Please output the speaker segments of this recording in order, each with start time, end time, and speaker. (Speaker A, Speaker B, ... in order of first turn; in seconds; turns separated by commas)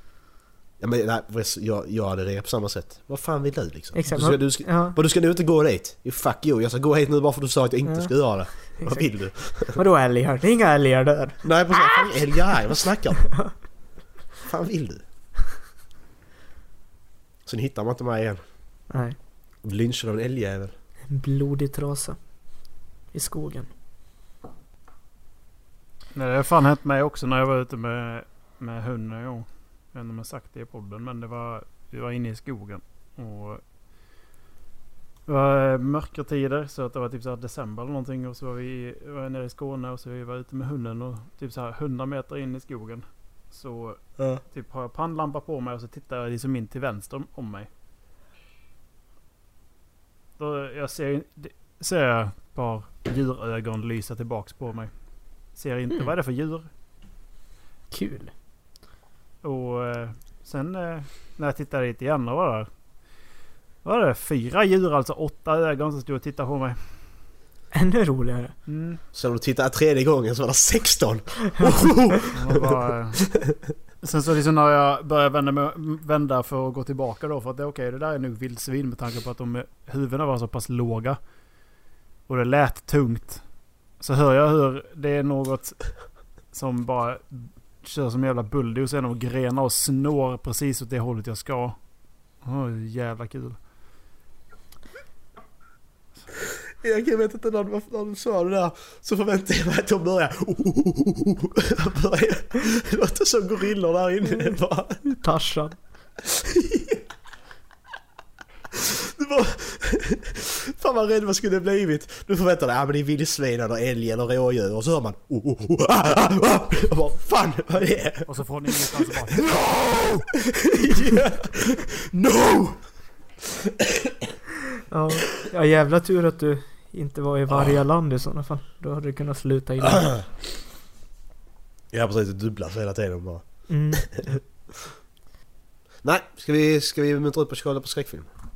Speaker A: 0.8-9.8, Speaker B: 3.9-5.0, Speaker B: 7.8-12.3, Speaker A: 11.4-13.7, Speaker A: 14.4-15.0, Speaker A: 17.4-18.4, Speaker B: 18.9-19.1, Speaker A: 19.6-20.7, Speaker B: 21.1-22.6, Speaker B: 23.1-23.7, Speaker C: 26.1-33.6, Speaker C: 35.2-47.7, Speaker A: 44.2-44.4, Speaker C: 50.4-56.7, Speaker B: 57.9-58.3, Speaker C: 59.4-62.7, Speaker C: 63.8-67.0, Speaker B: 67.7-68.6, Speaker C: 68.7-69.0, Speaker A: 69.1-72.7, Speaker C: 72.3-73.3, Speaker C: 74.0-81.7, Speaker C: 82.2-93.6, Speaker A: 96.8-105.0, Speaker B: 105.0-105.8, Speaker A: 106.4-107.0, Speaker A: 108.8-122.9, Speaker C: 118.2-120.2, Speaker B: 124.9-130.2, Speaker A: 131.9-134.3, Speaker B: 133.7-134.4, Speaker A: 136.0-138.3